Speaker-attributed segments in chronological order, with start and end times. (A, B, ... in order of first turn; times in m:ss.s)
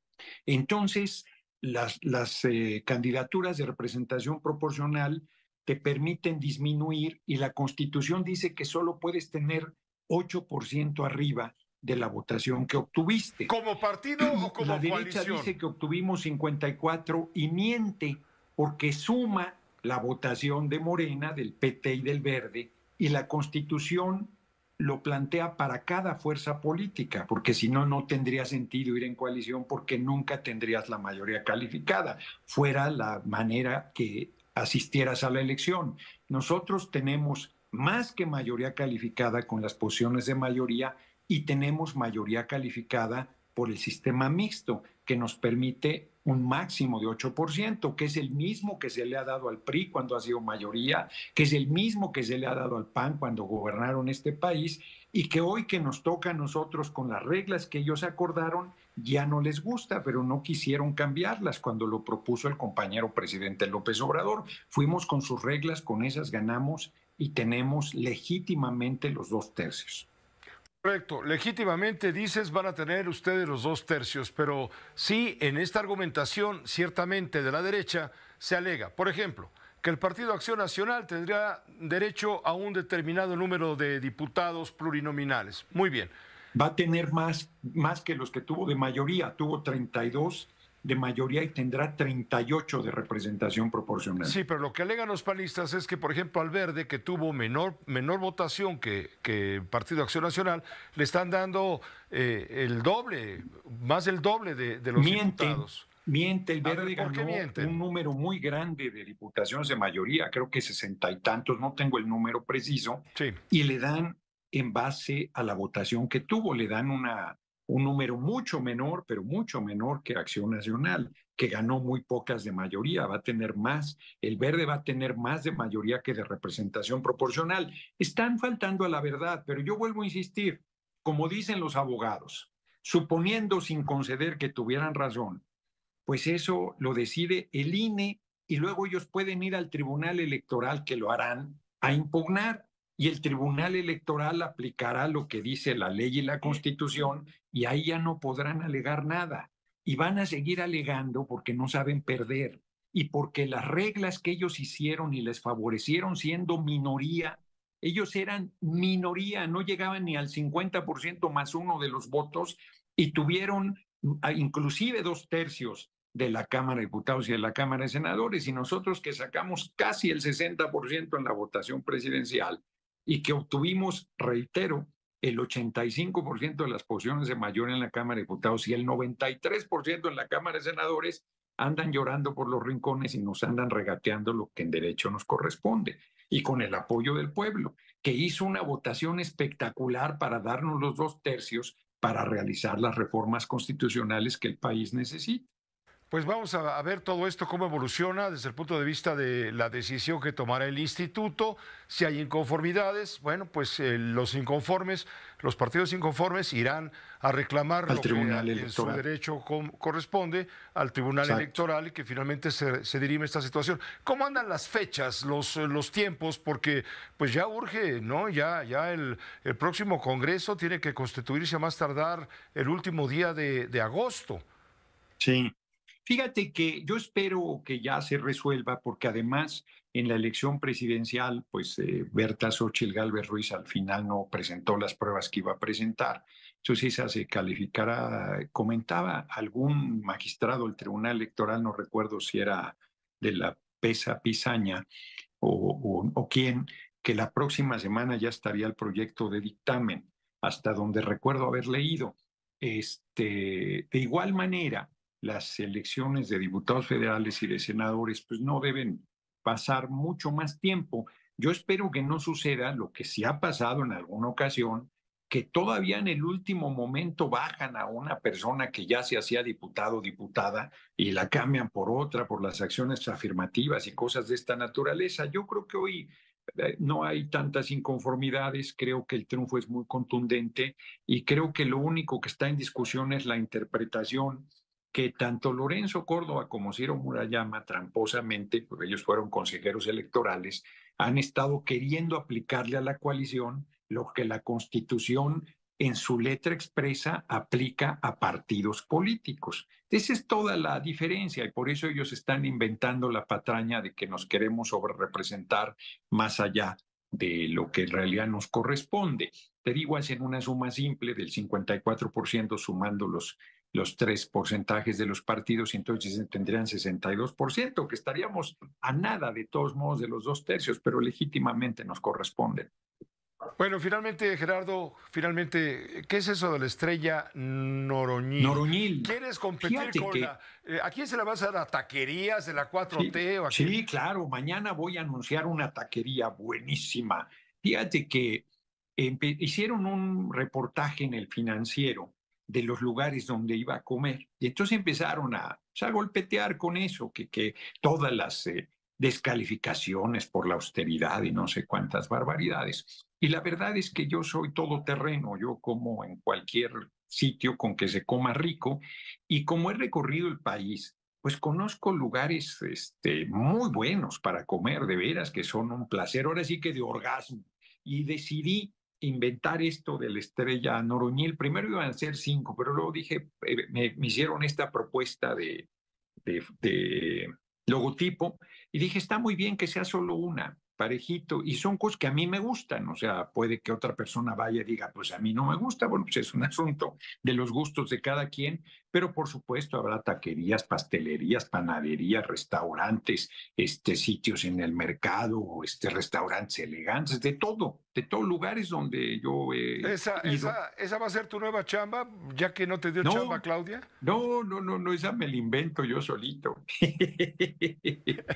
0:00.5-0:13.5 A
0:13.5-0:15.5 B
0:14.2-1:10.1 A
1:10.8-1:26.1 B
1:26.5-1:34.4 A
1:34.2-1:45.9 B
1:45.0-2:15.4 A
1:46.6-1:47.8 B
2:16.1-3:15.5 A
3:16.1-3:44.4 B
3:27.9-3:29.0 A
3:31.2-3:31.5 A
3:45.2-3:45.5 A
3:46.1-4:04.8 A
4:05.4-5:22.7 A
5:23.6-5:33.7 B
5:28.4-5:30.3 A
5:33.0-5:38.4 A
5:39.0-6:15.7 A
6:16.2-6:40.6 A
6:39.8-6:43.9 B
6:43.0-6:43.4 A
6:44.0-6:48.2 A